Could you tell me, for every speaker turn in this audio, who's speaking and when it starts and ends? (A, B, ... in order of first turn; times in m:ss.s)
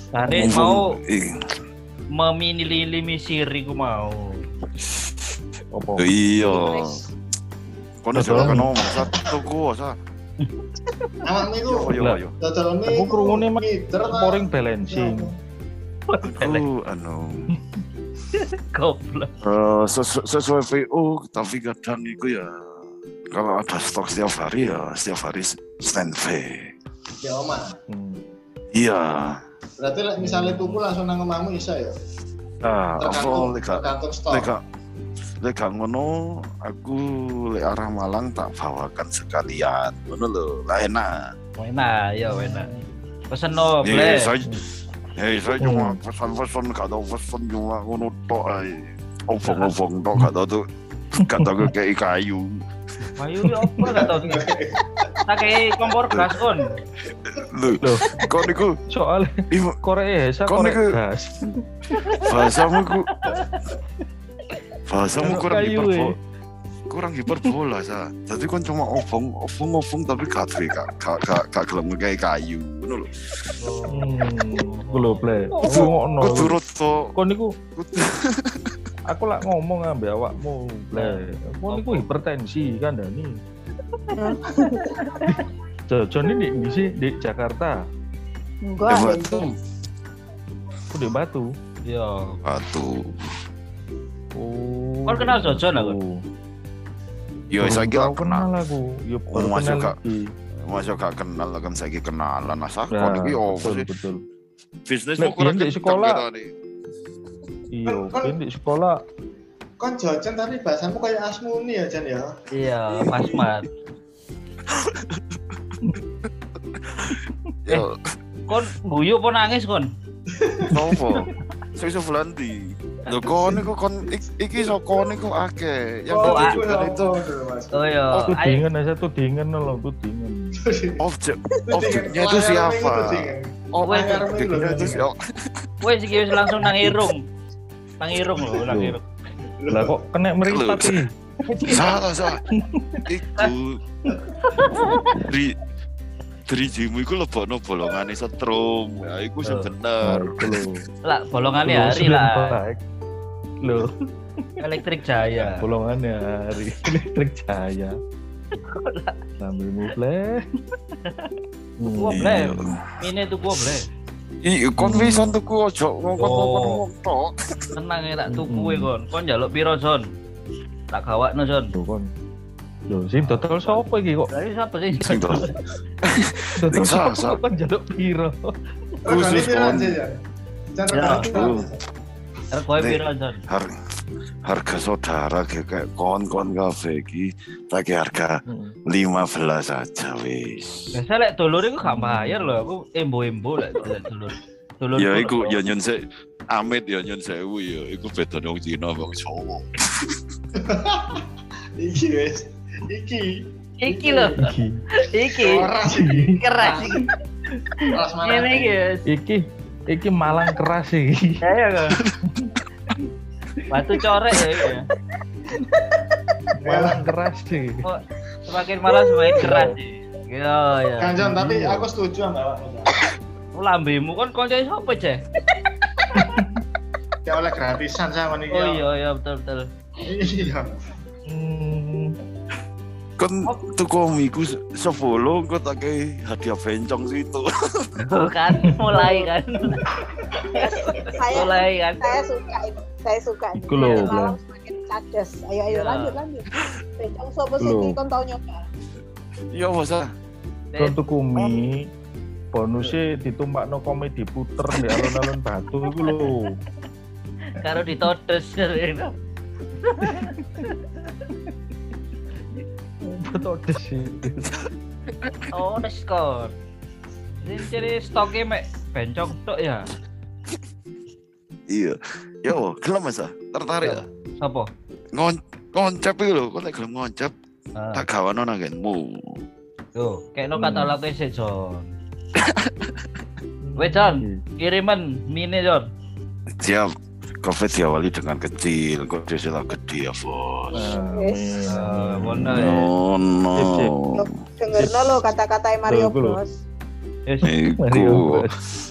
0:00.1-0:01.0 A
0:00.3-0:01.4 B
0:02.2-0:04.5 A
0:04.8-0:05.4 B
0:05.7-0:06.1 C
0:06.0-0:07.0 B
0:06.4-0:07.1 D
0:08.0-0:10.0 B
0:08.2-0:08.8 C
0:11.2-0:15.3 E
0:11.7-0:12.3 B
0:11.9-0:12.2 C
0:12.9-0:15.3 C
0:16.1-0:16.6 A
0:16.2-0:17.5 B
0:18.3-0:19.3 A
0:19.4-0:26.7 B
0:27.2-0:27.8 E
0:27.9-0:28.2 C
0:28.7-0:29.4 B
0:29.8-0:32.0 E
0:32.6-0:33.1 C
0:33.0-0:34.5 E
0:33.0-0:34.6 B
0:35.4-0:41.3 B
0:41.6-0:42.7 A
0:42.4-0:42.8 E
0:43.3-0:44.2 A
0:43.8-0:44.5 B
0:45.2-0:52.6 B
0:45.6-0:46.0 C
0:51.2-0:51.7 C
0:53.2-0:54.5 A
0:53.5-0:54.0 C
0:53.9-0:55.2 E
0:55.3-0:56.7 A
0:57.2-0:58.8 B
0:57.8-0:58.2 C
0:58.9-1:02.2 C
0:59.5-0:59.8 B
1:00.5-1:00.9 B
1:02.0-1:02.3 A
1:02.2-1:03.1 B
1:03.1-1:03.6 A
1:04.9-1:06.2 B
1:05.2-1:06.2 C
1:06.9-1:13.2 B
1:13.6-1:15.5 A
1:13.9-1:16.6 C
1:15.6-1:16.0 D
1:15.7-1:17.1 B
1:17.1-1:17.5 C
1:17.8-1:18.8 B
1:19.1-1:23.3 C
1:21.0-1:22.0 A
1:24.1-1:25.3 D
1:24.8-1:25.2 A
1:25.3-1:27.8 C
1:28.6-1:29.5 D
1:28.9-1:29.5 B
1:30.9-1:31.5 C
1:31.9-1:32.4 A
1:32.4-1:33.2 B
1:34.4-1:36.2 C
1:35.1-1:36.0 A
1:37.5-1:38.5 B
1:37.6-1:40.3 C
1:39.3-1:40.0 B
1:40.6-1:43.9 B
1:42.9-1:44.2 C
1:44.9-1:46.5 B
1:45.2-1:46.2 C
1:47.7-1:49.0 C
1:47.9-1:48.4 E
1:49.8-1:52.4 E
1:52.5-1:53.7 A
1:53.2-1:53.5 B
1:54.7-1:58.0 B
1:58.5-1:59.9 A
2:00.3-2:00.8 E
2:00.7-2:07.1 B
2:06.1-2:08.0 E
2:06.2-2:06.6 A
2:07.7-2:08.6 A
2:08.1-2:10.6 C
2:10.6-2:11.0 E
2:11.0-2:15.7 B
2:11.7-2:15.1 E
2:13.9-2:14.2 A
2:15.8-2:17.2 A
2:18.0-2:19.0 A
2:18.7-2:19.0 C
2:19.6-2:20.0 E
2:19.7-2:21.8 C
2:20.5-2:21.0 B
2:21.5-2:21.9 A
2:21.7-2:22.4 B
2:22.5-2:23.0 C
2:23.1-2:23.8 B
2:24.5-2:25.1 A
2:24.7-2:25.6 B
2:26.5-2:30.6 B
2:29.4-2:29.7 A
2:30.0-2:30.9 C
2:31.1-2:32.6 A
2:31.6-2:32.8 C
2:33.6-2:33.9 C
2:34.6-2:35.6 A
2:35.4-2:38.0 C
2:38.6-2:39.2 A
2:39.4-2:40.4 C
2:41.0-2:41.3 A
2:41.8-2:42.5 C
2:41.9-2:43.8 A
2:42.1-2:42.8 B
2:44.4-2:47.4 B
2:44.8-2:45.4 C
2:46.2-2:46.8 A
2:47.8-2:50.1 A
2:48.3-2:48.9 C
2:50.9-2:51.7 A
2:51.8-2:52.1 C
2:52.9-2:54.3 C
2:53.2-2:55.6 A
2:55.0-2:55.5 B
2:56.0-2:57.4 B
2:56.6-2:58.5 C
2:59.1-3:00.0 B
2:59.1-3:00.2 E
3:00.7-3:01.8 E
3:00.9-3:01.3 A
3:01.0-3:01.6 B
3:02.5-3:03.4 A
3:02.8-3:03.7 B
3:04.4-3:11.0 B
3:08.5-3:08.8 C
3:10.9-3:15.6 A
3:11.8-3:12.6 C
3:15.0-3:20.2 B
3:20.6-3:21.2 E
3:21.8-3:24.4 E
3:23.8-3:25.7 A
3:24.4-3:24.8 C
3:25.4-3:27.1 E
3:25.9-3:26.4 C
3:26.4-3:27.1 A
3:27.8-3:29.0 A
3:27.9-3:28.8 E
3:29.1-3:31.4 C
3:31.4-3:32.0 A
3:31.9-3:32.2 B
3:33.7-3:34.9 A
3:36.6-3:37.9 C
3:36.6-3:37.0 E
3:37.8-3:41.2 A
3:39.0-3:39.4 D
3:39.4-3:39.8 C
3:41.0-3:43.0 E
3:41.2-3:41.8 C
3:43.6-3:45.2 A
3:46.1-3:46.4 A
3:46.2-3:46.6 C
3:47.2-3:48.8 E
3:48.5-3:49.7 A
3:50.0-3:50.7 E
3:51.3-3:52.2 C
3:53.2-3:57.9 B
3:58.0-3:59.9 A
3:59.0-3:59.3 D
4:00.5-4:08.6 D
4:01.3-4:02.2 A
4:03.6-4:04.4 C
4:05.7-4:06.2 A
4:07.6-4:08.0 C
4:09.5-4:10.1 B
4:10.8-4:11.9 C
4:12.5-4:16.6 C
4:17.5-4:19.1 A
4:19.8-4:21.2 A
4:20.1-4:20.6 C
4:23.2-4:24.5 C
4:25.2-4:25.5 B
4:25.5-4:26.5 A
4:27.4-4:29.9 A
4:31.7-4:34.0 B
4:33.8-4:34.7 A
4:35.1-4:37.3 B
4:37.8-4:38.0 A
4:38.0-4:39.4 B
4:40.0-4:41.9 A
4:40.6-4:41.0 C
4:42.4-4:42.9 B
4:43.6-4:44.4 C
4:43.8-4:45.9 A
4:46.5-4:46.9 B
4:47.4-4:50.8 B
4:50.7-4:51.5 D
4:50.7-4:52.7 C
4:51.7-4:52.9 A
4:52.5-4:54.2 B
4:53.6-4:54.0 C
4:54.1-4:56.6 D
4:54.8-4:55.1 C
4:55.8-4:56.4 C
4:57.4-4:58.4 B
4:57.8-4:58.5 C